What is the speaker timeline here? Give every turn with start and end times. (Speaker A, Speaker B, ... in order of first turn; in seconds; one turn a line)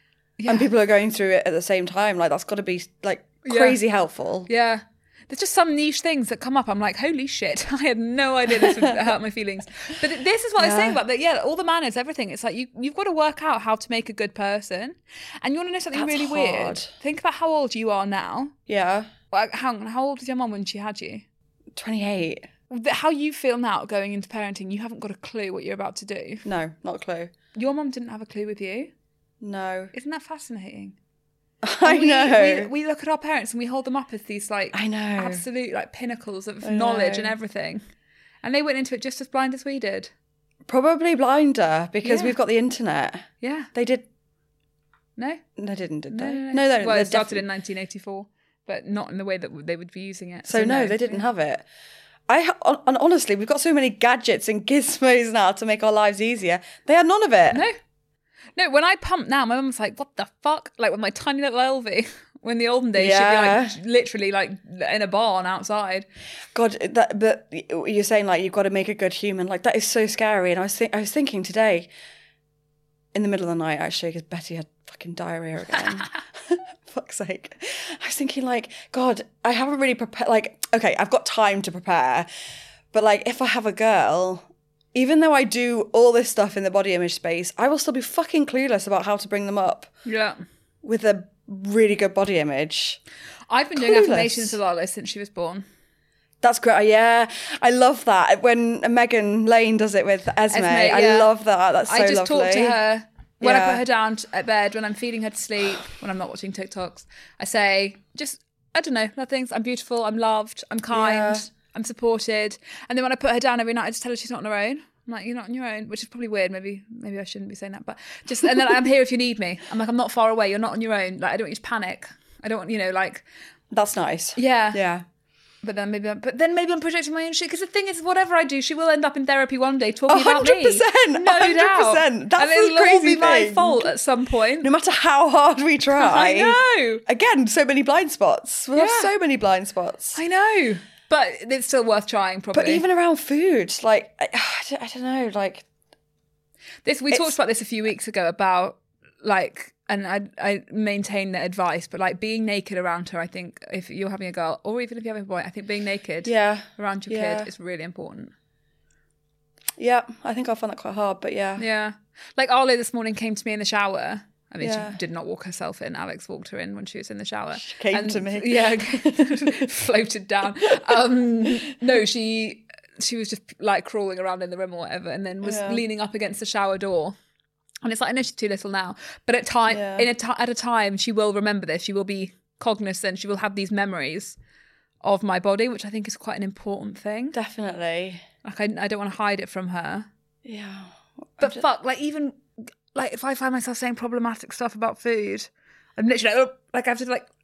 Speaker A: 0.4-0.7
Speaker B: 0.5-4.5
Speaker A: 3.5-3.8
Speaker A: 4.5-18.6
Speaker B: 10.6-11.0
Speaker B: 15.9-16.9
Speaker B: 18.7-19.1
Speaker A: 19.3-21.2
Speaker B: 21.8-22.5
Speaker A: 22.7-26.4
Speaker B: 26.4-27.3
Speaker A: 27.5-28.9
Speaker B: 29.4-29.9
Speaker A: 29.9-31.0
Speaker B: 31.6-32.7
Speaker A: 31.8-37.8
Speaker B: 34.7-35.4
Speaker B: 36.6-37.3
Speaker A: 38.4-40.1
Speaker B: 40.7-44.0
Speaker A: 42.0-42.4
Speaker A: 43.4-43.7
Speaker A: 45.2-45.4
Speaker B: 45.6-47.5
Speaker A: 46.1-51.2
Speaker B: 50.5-51.6
Speaker B: 52.3-57.6
Speaker A: 57.5-57.8
Speaker A: 58.6-66.1
Speaker B: 63.0-63.8
Speaker B: 66.5-71.9
Speaker B: 73.1-82.3
Speaker B: 82.9-89.9
Speaker A: 90.0-90.4
Speaker B: 90.8-93.0
Speaker A: 93.5-95.7
Speaker B: 93.8-94.6
Speaker B: 96.4-102.8
Speaker A: 100.5-101.3
Speaker A: 101.9-123.2
Speaker B: 103.4-103.8
Speaker B: 110.9-111.5
Speaker B: 123.7-125.0
Speaker A: 124.4-124.8
Speaker A: 125.6-134.7
Speaker B: 130.1-133.9
Speaker B: 134.6-140.2
Speaker A: 136.0-137.0
Speaker A: 138.8-139.1
Speaker A: 140.2-142.8
Speaker B: 142.5-145.7
Speaker A: 146.8-158.3
Speaker B: 156.2-157.5
Speaker B: 159.8-161.6
Speaker A: 161.6-177.2
Speaker B: 164.6-165.0
Speaker B: 167.6-169.7
Speaker B: 175.4-175.8
Speaker A: 177.8-184.4
Speaker B: 179.7-180.1
Speaker A: 185.0-187.3
Speaker B: 187.3-188.2
Speaker A: 188.4-190.1
Speaker B: 190.4-191.6
Speaker A: 191.4-192.4
Speaker A: 192.9-197.3